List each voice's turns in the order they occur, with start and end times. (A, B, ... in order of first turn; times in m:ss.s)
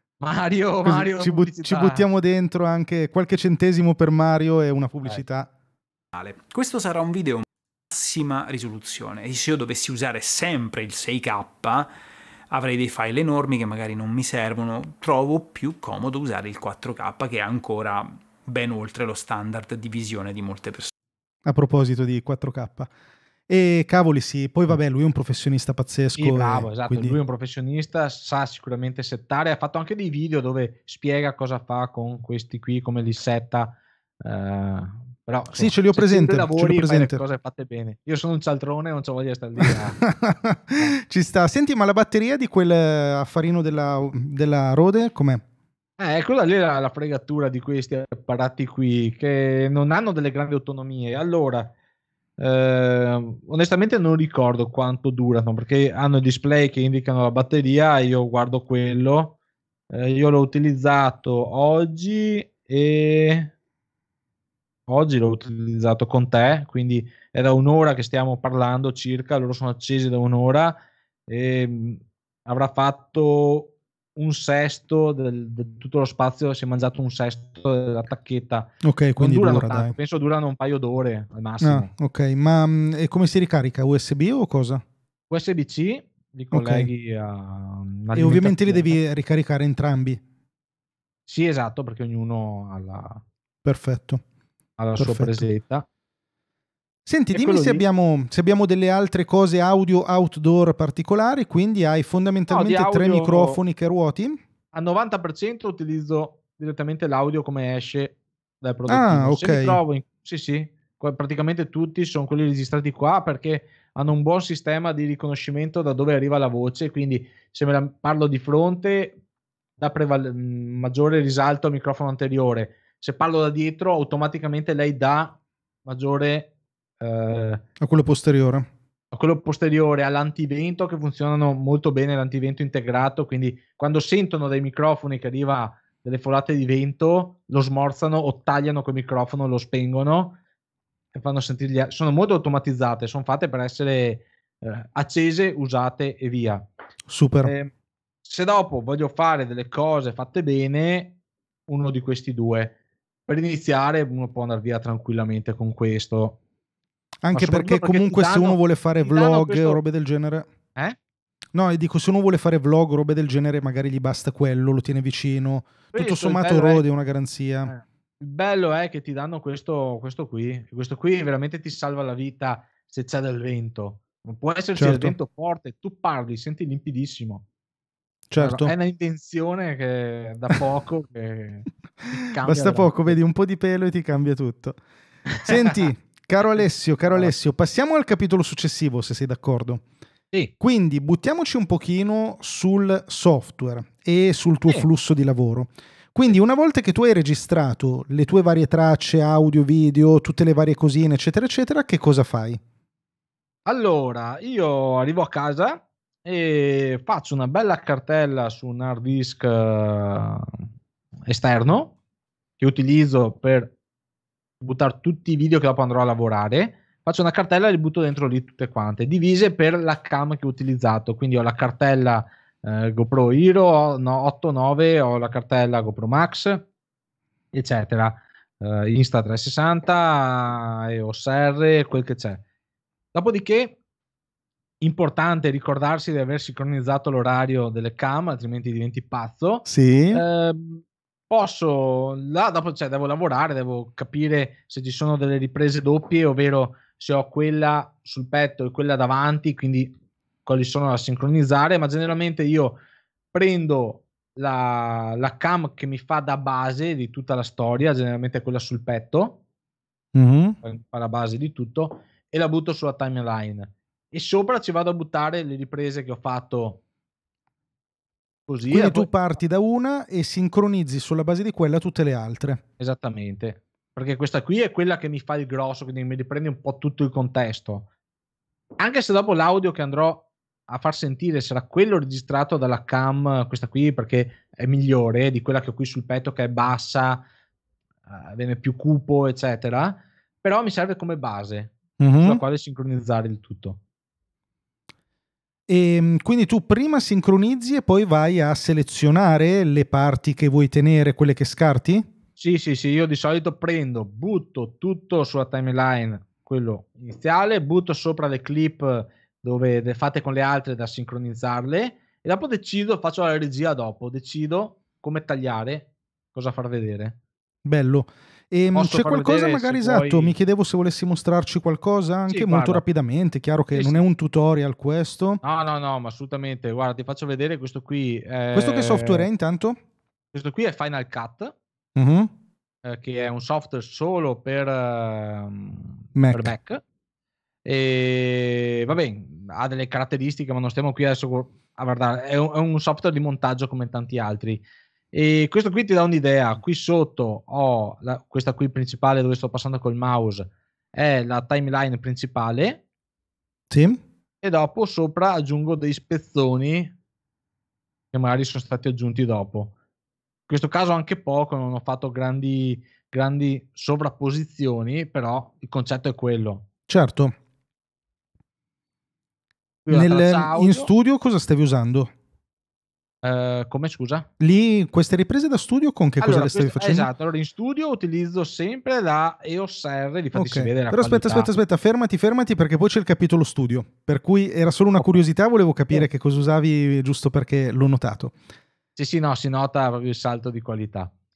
0:00.2-0:02.0 A
0:00.8-0:05.5 B
0:06.1-0:11.9 C
0:12.5-0:20.9 C
0:21.4-0:22.9 B
0:23.5-0:27.2 B
0:26.2-0:40.0 A
0:35.5-0:37.2 B
0:39.6-0:45.4 B
0:46.0-0:51.7 A
0:52.4-0:59.3 A
0:59.9-1:03.5 A
1:04.9-1:10.8 A
1:11.3-1:21.9 A
1:18.8-1:19.9 B
1:21.6-1:24.8 B
1:25.3-1:29.0 A
1:26.5-1:26.9 B
1:28.1-1:30.2 B
1:31.3-1:33.2 A
1:33.6-1:34.2 B
1:34.8-1:35.8 A
1:35.0-1:35.4 B
1:37.0-1:44.4 B
1:37.3-1:37.8 A
1:42.5-1:43.6 A
1:44.7-1:59.2 A
1:48.9-1:49.8 B
1:59.8-2:07.6 A
2:07.8-2:08.7 B
2:09.1-2:20.4 A
2:21.1-2:26.6 A
2:27.1-2:27.5 B
2:27.4-2:27.7 A
2:28.2-2:31.1 A
2:31.7-2:32.8 A
2:33.3-2:36.4 A
2:37.2-2:40.5 B
2:37.3-2:39.8 A
2:41.5-2:47.7 B
2:45.9-2:46.8 A
2:47.7-2:57.4 A
2:54.8-2:55.1 B
2:58.3-2:58.7 B
2:58.4-3:03.2 A
3:02.4-3:04.8 B
3:05.3-3:05.9 A
3:05.4-3:09.8 B
3:10.6-3:22.6 B
3:23.6-3:30.5 A
3:31.3-3:31.9 A
3:32.6-3:33.7 A
3:34.6-3:46.6 A
3:47.5-3:52.4 A
3:53.1-3:53.8 A
3:54.8-4:09.9 A
3:59.7-4:00.2 B
4:10.4-4:12.8 A
4:13.3-4:19.4 A
4:20.1-4:20.6 B
4:20.6-4:26.8 A
4:28.5-4:29.1 A
4:28.7-4:32.6 B
4:32.8-4:37.8 A
4:38.8-4:47.2 A
4:48.1-4:53.8 A
4:52.0-4:52.4 B
4:55.7-5:02.1 B
5:02.4-5:17.2 A
5:17.6-5:25.4 B
5:18.7-5:20.4 A
5:22.3-5:22.8 A
5:23.7-5:24.0 A
5:25.4-5:29.3 A
5:28.5-5:29.8 B
5:30.3-5:31.5 A
5:31.9-5:32.3 B
5:32.8-5:36.8 A
5:36.2-5:36.5 B
5:37.6-5:52.8 A
5:53.7-5:54.0 B
5:54.4-5:56.9 A
5:58.1-5:59.7 A
6:00.5-6:06.6 A
6:06.9-6:07.3 B
6:09.8-6:10.9 A
6:09.9-6:12.1 B
6:13.2-6:14.3 A
6:14.4-6:17.1 B
6:16.2-6:21.5 A
6:20.3-6:28.3 B
6:29.0-6:31.1 A